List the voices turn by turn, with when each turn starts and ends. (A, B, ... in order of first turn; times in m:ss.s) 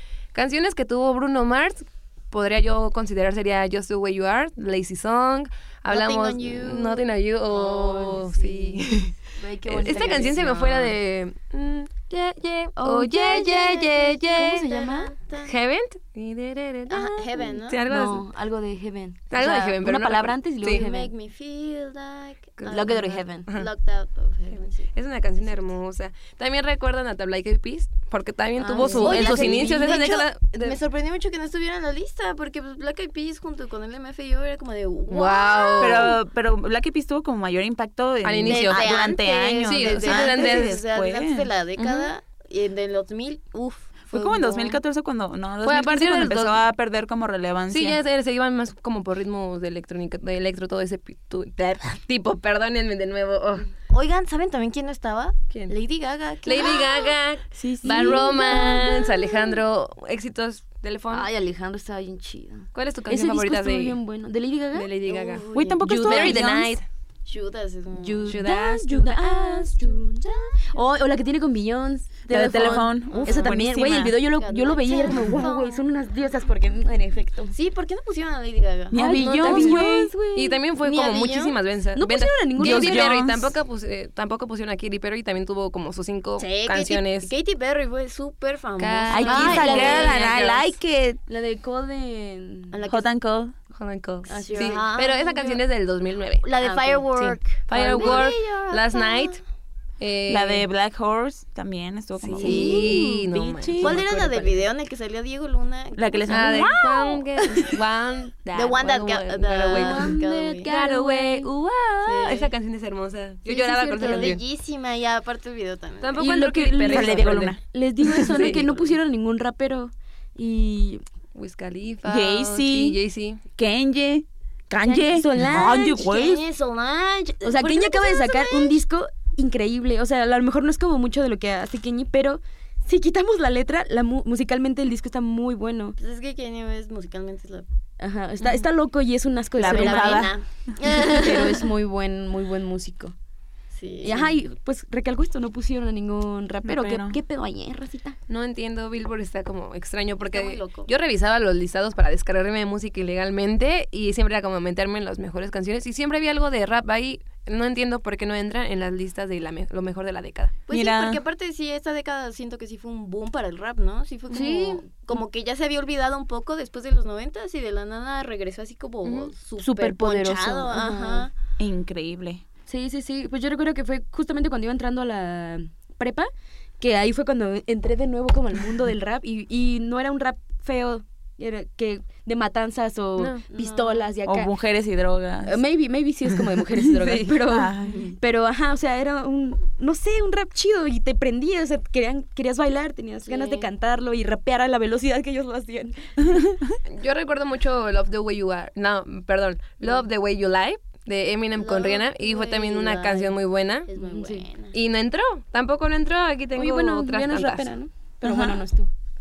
0:00.3-0:09.2 A
0:05.9-0:10.9 B
0:09.4-0:10.5 C
0:09.7-0:14.7 A
0:12.8-0:13.5 C
0:13.3-0:15.5 B
0:14.3-0:15.1 C
0:15.4-0:18.3 A
0:16.9-0:17.8 B
0:17.9-0:21.1 C
0:19.3-0:20.8 A
0:20.6-0:25.6 B
0:22.6-0:22.9 A
0:22.7-0:23.5 C
0:24.5-0:30.8 A
0:28.6-0:30.1 C
0:28.7-0:36.2 B
0:29.0-0:29.6 D
0:35.1-0:36.2 A
0:35.8-0:41.5 D
0:38.2-0:38.9 A
0:38.4-0:44.8 B
0:39.6-0:40.8 A
0:41.8-0:42.1 A
0:44.1-0:48.0 D
0:45.6-0:46.6 A
0:47.7-0:53.7 A
0:53.9-0:57.2 B
0:56.4-1:01.3 A
0:57.5-0:58.3 D
0:58.0-0:58.9 C
0:58.1-0:59.0 B
1:01.1-1:04.9 C
1:02.7-1:04.0 A
1:04.7-1:06.9 A
1:05.0-1:06.5 B
1:05.5-1:06.8 D
1:07.3-1:08.4 B
1:08.0-1:17.6 C
1:08.3-1:09.2 A
1:09.2-1:10.8 B
1:12.3-1:14.2 D
1:12.6-1:13.6 B
1:14.2-1:15.9 B
1:17.5-1:19.0 B
1:18.9-1:20.1 D
1:18.9-1:20.6 C
1:19.2-1:27.3 A
1:20.8-1:21.6 B
1:22.0-1:23.2 C
1:22.6-1:23.6 D
1:26.4-1:30.3 B
1:28.8-1:30.7 A
1:29.1-1:31.2 D
1:29.2-1:30.2 C
1:31.3-1:32.8 C
1:32.7-1:33.1 B
1:32.9-1:33.5 D
1:33.8-1:36.5 A
1:34.3-1:34.9 C
1:34.4-1:35.6 B
1:36.4-1:39.4 B
1:36.6-1:38.3 C
1:37.7-1:39.4 A
1:40.0-1:40.7 A
1:40.3-1:43.0 D
1:42.2-1:44.0 A
1:42.4-1:44.6 C
1:42.4-1:42.9 B
1:43.8-1:46.8 B
1:46.0-1:46.9 D
1:46.3-1:50.1 A
1:48.5-1:50.7 B
1:49.7-1:51.5 C
1:50.6-1:54.4 A
1:52.0-1:52.5 B
1:53.5-1:56.3 B
1:54.0-1:54.4 C
1:56.0-1:57.6 A
1:56.2-2:01.0 C
1:56.9-1:57.6 D
1:58.1-1:58.9 A
2:01.4-2:03.4 A
2:02.0-2:03.0 D
2:03.6-2:06.4 D
2:05.0-2:06.0 C
2:05.6-2:08.8 B
2:07.4-2:16.0 C
2:16.0-2:17.7 B
2:18.0-2:23.1 C
2:19.6-2:20.4 D
2:19.6-2:21.7 B
2:23.7-2:24.4 B
2:24.0-2:28.2 C
2:26.6-2:27.2 D
2:28.3-2:40.5 A
2:30.2-2:30.9 B
2:40.7-2:51.3 B
2:40.7-2:41.2 D
2:44.3-2:44.8 C
2:49.0-2:49.3 A
2:49.6-2:51.3 C
2:51.6-2:52.4 D
2:52.7-2:56.3 C
2:56.8-3:04.5 C
3:03.2-3:03.4 A
3:03.5-3:04.1 B
3:04.2-3:05.6 D
3:05.4-3:16.3 C
3:07.0-3:07.3 A
3:07.5-3:08.1 D
3:07.9-3:08.2 B
3:13.3-3:13.7 B
3:16.3-3:16.6 D
3:16.8-3:23.9 A
3:21.6-3:24.8 B
3:24.0-3:24.5 C
3:24.7-3:27.7 A
3:26.6-3:28.9 C
3:28.2-3:28.6 D